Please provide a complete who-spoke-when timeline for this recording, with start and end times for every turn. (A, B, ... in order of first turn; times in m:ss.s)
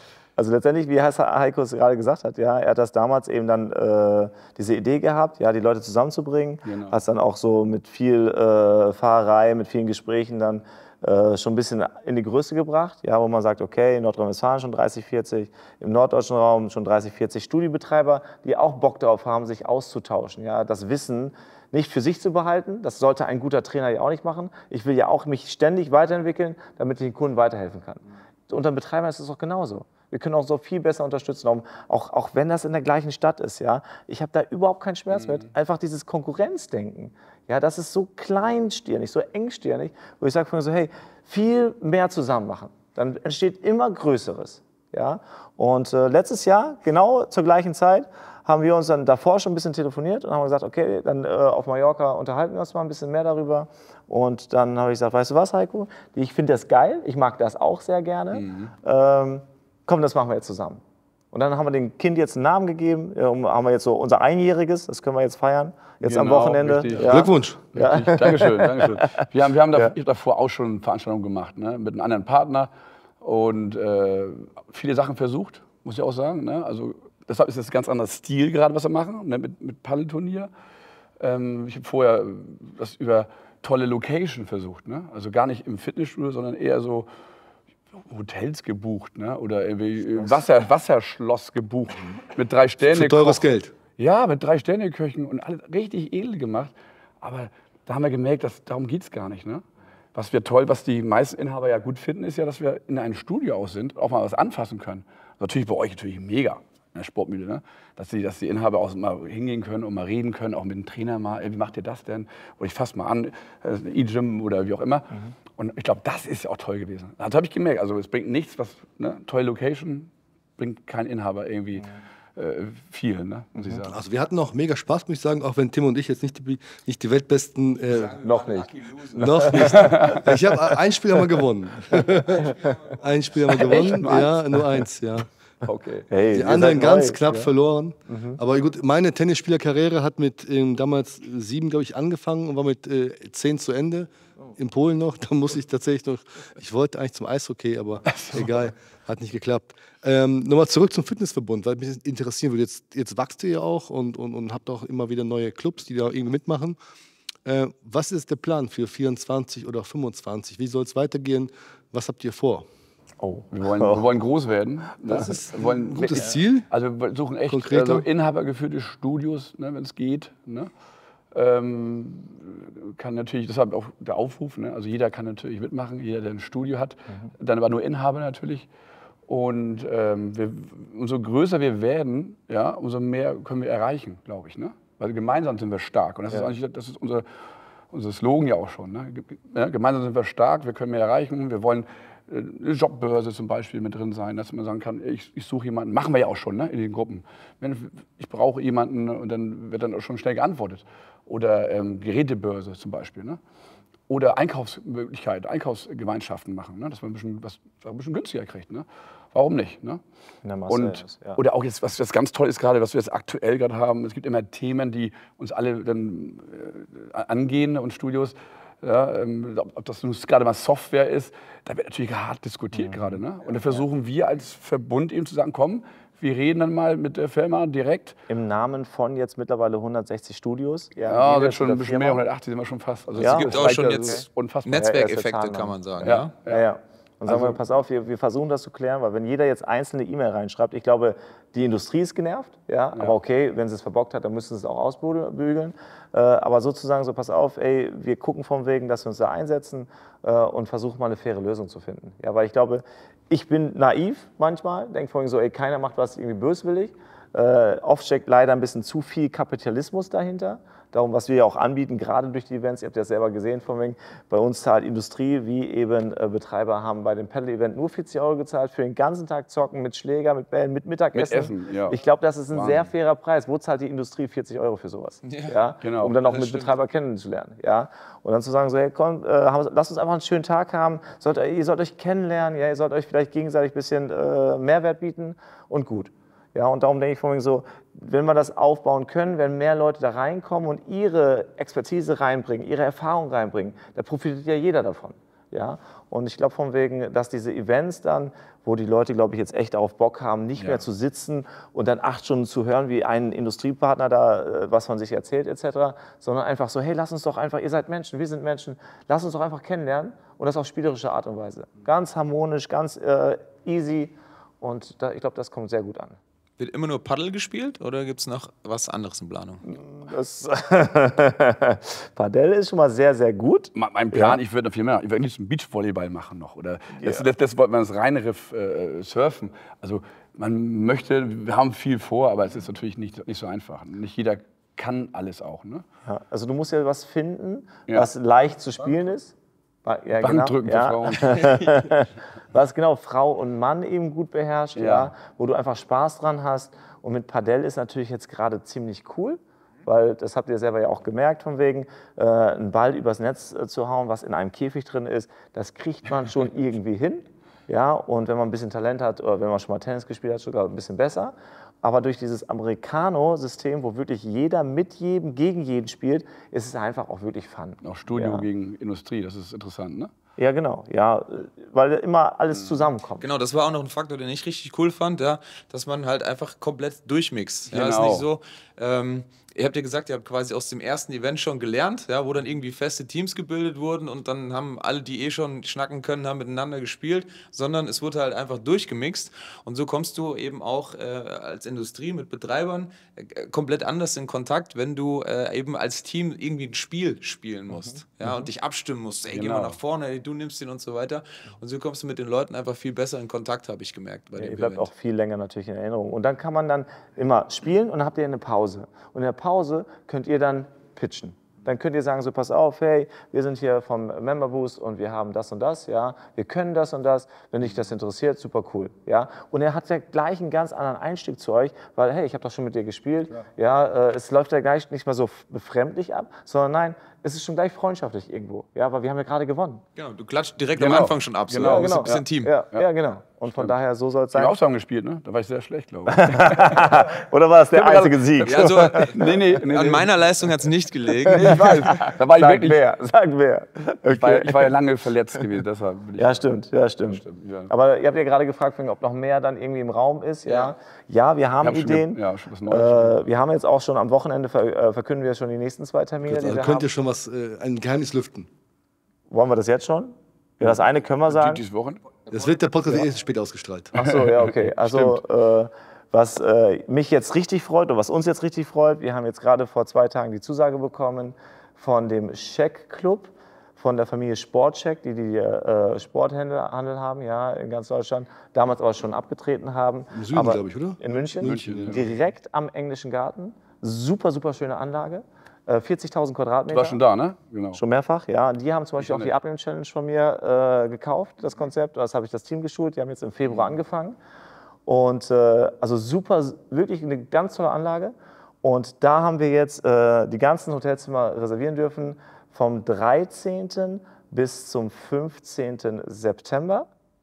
0:00.4-1:10.0 A
0:06.6-0:07.0 B
0:58.3-0:58.7 B
1:06.0-1:12.7 B
1:07.0-1:07.6 C
1:13.2-1:20.5 B
1:21.2-1:27.1 B
1:28.0-1:39.6 B
1:32.9-1:33.7 C
1:40.1-2:03.9 B
2:03.6-2:03.9 A
2:03.9-2:08.2 C
2:07.9-2:09.2 D
2:08.2-2:10.2 A
2:09.2-2:15.3 C
2:09.4-2:10.4 B
2:12.4-2:12.7 A
2:13.5-2:14.8 B
2:15.6-2:16.1 B
2:16.1-2:17.5 A
2:16.3-2:36.8 C
2:18.1-2:18.4 A
2:28.1-2:28.7 B
2:37.4-2:42.7 C
2:43.2-2:44.0 A
2:43.5-2:50.7 B
2:45.1-2:46.7 C
2:47.5-2:48.1 C
2:51.3-2:58.7 B
2:59.3-3:07.3 B
3:07.9-3:23.4 B
3:24.1-3:30.0 B
3:30.4-3:31.4 A
3:30.7-3:48.2 B
3:42.7-3:43.2 A
3:48.3-3:52.2 A
3:51.1-3:55.0 B
3:53.2-3:56.4 D
3:53.2-5:16.2 A
3:56.0-3:56.7 B
3:57.3-3:57.6 B
4:31.1-4:32.0 B
4:32.5-4:32.8 B
4:35.2-4:35.6 D
4:35.8-4:36.2 B
4:36.2-4:36.8 D
5:16.6-5:19.6 D
5:19.6-5:24.4 A
5:23.8-5:35.8 B
5:27.0-5:27.3 A
5:36.0-6:08.5 A
5:40.2-5:41.9 B
5:44.8-5:45.1 B
6:07.8-6:10.1 B
6:10.4-6:13.2 A
6:12.6-6:12.9 B
6:13.2-6:44.9 D
6:17.7-6:18.3 B
6:37.7-6:38.0 A
6:39.3-6:39.8 B
6:44.4-7:09.8 A
7:10.0-7:12.5 D
7:10.8-7:12.9 B
7:11.6-7:14.6 A
7:14.3-7:17.0 B
7:16.1-7:19.1 A
7:17.7-7:20.1 B
7:18.4-7:22.0 D
7:21.2-7:22.8 B
7:21.3-7:24.8 A
7:24.1-7:26.5 B
7:26.2-7:36.9 A
7:27.0-7:27.7 B
7:30.5-7:30.8 D
7:31.6-7:33.2 B
7:36.2-7:38.5 C
7:39.3-7:41.6 A
7:40.6-7:42.0 B
7:42.3-7:43.9 C
7:43.9-8:07.0 A
7:44.0-7:45.2 B
8:00.1-8:02.2 C
8:01.4-8:02.1 B
8:06.7-8:07.8 B
8:07.7-8:14.2 A
8:09.0-8:09.3 B
8:14.9-8:26.9 A